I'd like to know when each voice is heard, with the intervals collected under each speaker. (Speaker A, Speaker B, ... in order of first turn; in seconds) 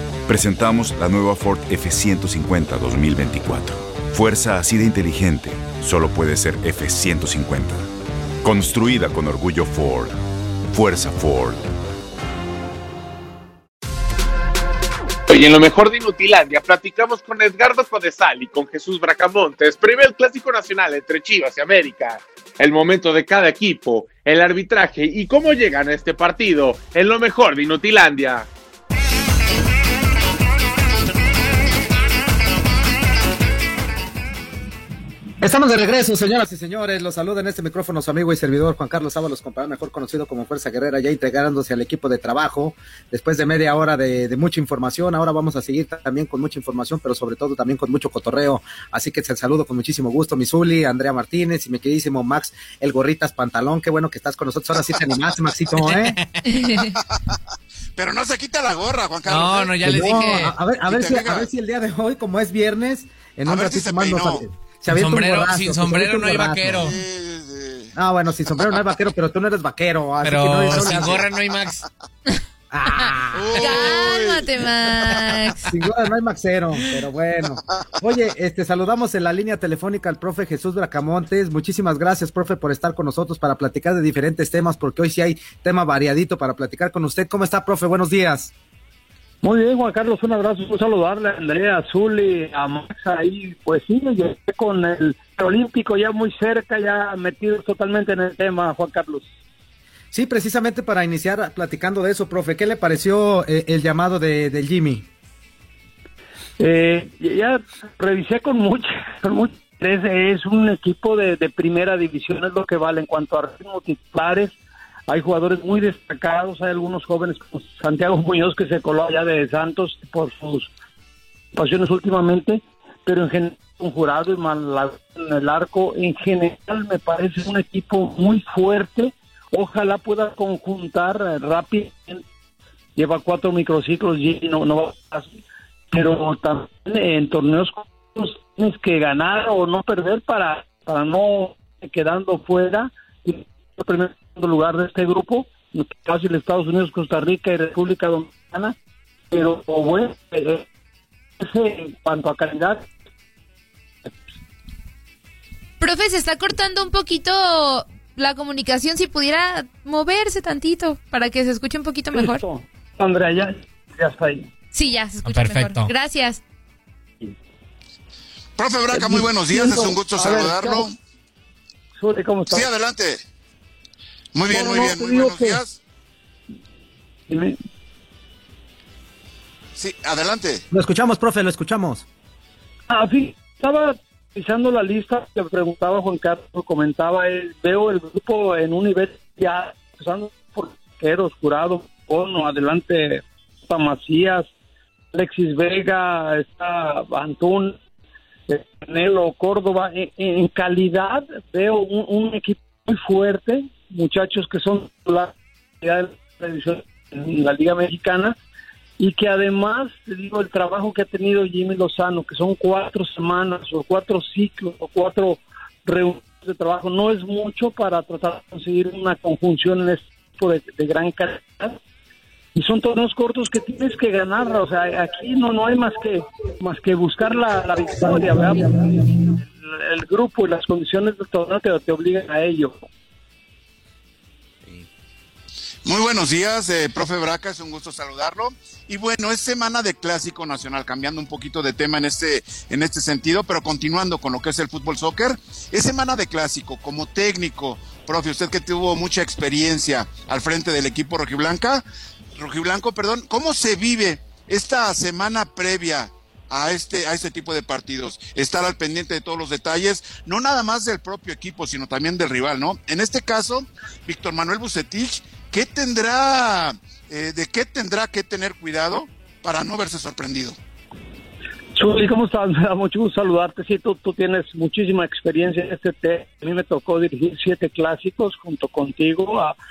Speaker A: 0.3-7.9, 8.4-10.2, 10.7-11.8
Speaker B: 15.3-28.5
Speaker C: 35.4-56.2, 59.8-66.8, 68.0-71.2, 72.7-73.1, 75.7-88.5, 100.1-105.1, 180.7-182.1
Speaker D: 55.8-56.4, 59.3-60.5, 64.9-66.9, 70.2-71.8, 73.0-73.3, 165.2-165.9
Speaker E: 58.0-60.2, 60.9-61.5, 63.5-64.4, 66.7-67.9, 73.3-74.5, 168.6-171.0, 172.5-173.2, 174.3-175.8, 179.8-180.6, 235.9-251.8, 252.4-270.6
Speaker F: 73.0-75.6, 155.8-162.4, 164.7-166.4
Speaker G: 89.4-99.3, 106.6-114.5, 115.1-120.7, 121.5-132.2, 133.0-135.4, 135.9-148.8, 149.3-150.7, 151.4-152.9, 162.1-164.5, 168.9-170.9, 172.0-172.7, 174.5-175.6, 177.3-177.6, 182.9-194.5, 195.1-197.8, 198.5-208.4, 209.0-221.8, 222.6-232.8, 271.8-279.6